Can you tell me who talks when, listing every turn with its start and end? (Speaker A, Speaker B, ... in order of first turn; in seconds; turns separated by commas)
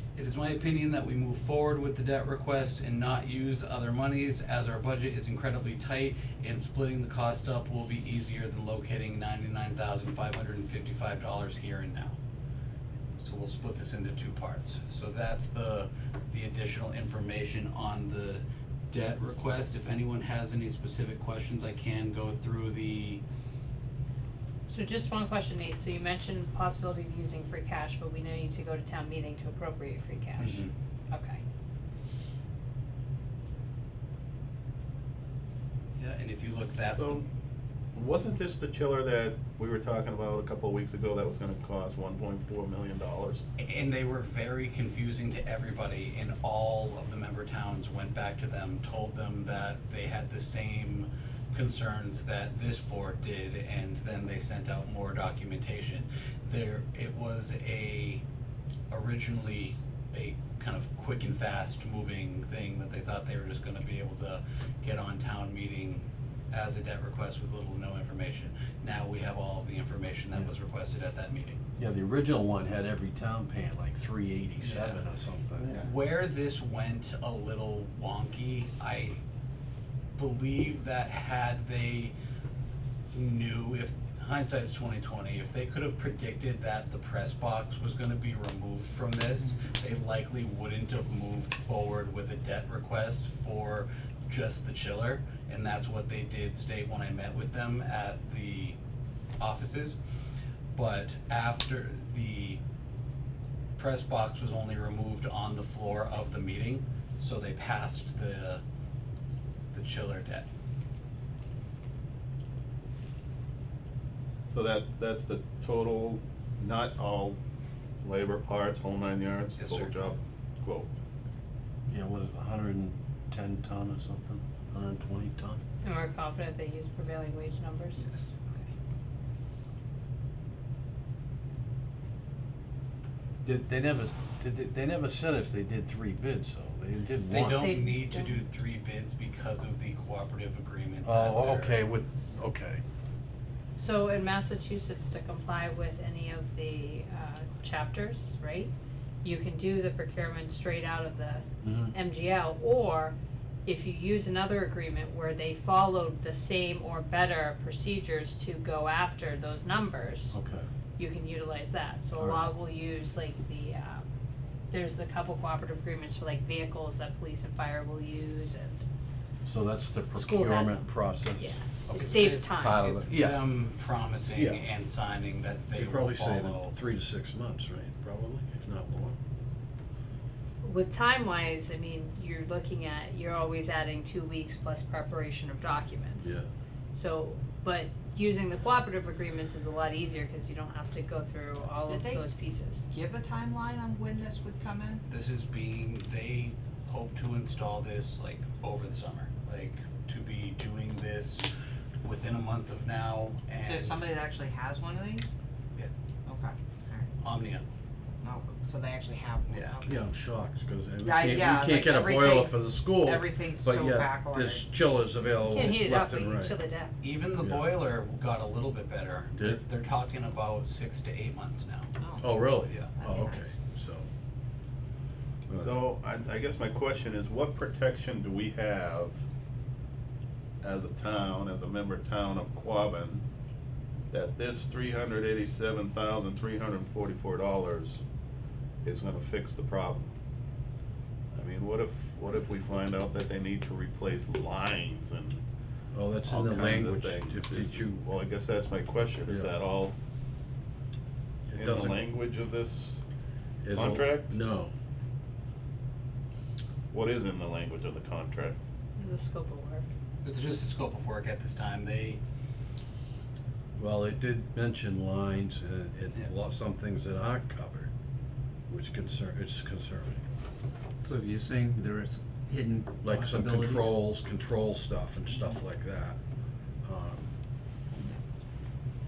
Speaker A: 0.2-12.2, Speaker A: 13.2-23.2, Speaker B: 24.7-31.4, Speaker A: 30.4-30.7, Speaker A: 36.0-37.3, Speaker C: 36.5-37.2, Speaker C: 37.9-43.4, Speaker A: 43.6-58.2, Speaker A: 58.9-71.6, Speaker D: 71.8-75.8, Speaker A: 74.6-75.0, Speaker A: 75.6-79.2, Speaker A: 80.2-82.1, Speaker A: 83.1-98.8, Speaker A: 99.4-100.0, Speaker A: 100.7-102.6, Speaker A: 103.8-108.6, Speaker A: 109.7-110.5, Speaker C: 114.5-117.4, Speaker C: 118.0-120.9, Speaker A: 119.6-120.1, Speaker D: 121.9-125.6, Speaker B: 125.8-128.7, Speaker D: 133.4-137.7, Speaker A: 137.3-141.8, Speaker B: 137.4-138.4, Speaker D: 141.0-142.8, Speaker B: 143.8-148.7, Speaker B: 149.2-160.4, Speaker D: 151.6-151.9, Speaker D: 160.3-160.7, Speaker B: 161.0-164.1, Speaker D: 162.2-162.5, Speaker B: 164.7-168.8, Speaker D: 169.4-173.4, Speaker B: 170.2-172.8, Speaker A: 171.9-176.8, Speaker D: 174.3-174.7, Speaker D: 175.7-179.2, Speaker B: 180.6-186.4, Speaker D: 186.2-186.5, Speaker B: 186.9-192.9, Speaker E: 191.9-192.2, Speaker E: 192.9-195.0, Speaker A: 195.1-201.5, Speaker A: 202.0-204.0, Speaker E: 203.6-205.3, Speaker E: 206.3-207.1, Speaker A: 207.2-207.7, Speaker E: 208.2-210.0, Speaker A: 209.5-209.8, Speaker D: 209.8-216.6, Speaker E: 211.0-214.6, Speaker B: 215.4-216.9, Speaker A: 217.0-221.9, Speaker D: 217.4-217.7, Speaker E: 222.0-222.3, Speaker D: 222.2-224.1, Speaker A: 222.7-222.9, Speaker E: 223.0-223.5, Speaker D: 225.5-225.8, Speaker C: 225.6-229.2, Speaker C: 230.6-233.2, Speaker C: 234.1-238.0, Speaker C: 238.8-240.1, Speaker C: 241.3-245.4, Speaker D: 245.9-248.0, Speaker C: 246.3-249.9, Speaker D: 251.5-252.0, Speaker C: 251.6-253.0, Speaker D: 253.6-254.7, Speaker C: 253.7-254.4, Speaker C: 256.9-258.6, Speaker B: 259.0-259.9, Speaker A: 260.2-262.2, Speaker D: 263.8-267.9, Speaker D: 268.7-270.2, Speaker F: 271.0-273.9, Speaker D: 273.0-276.2, Speaker D: 276.9-277.3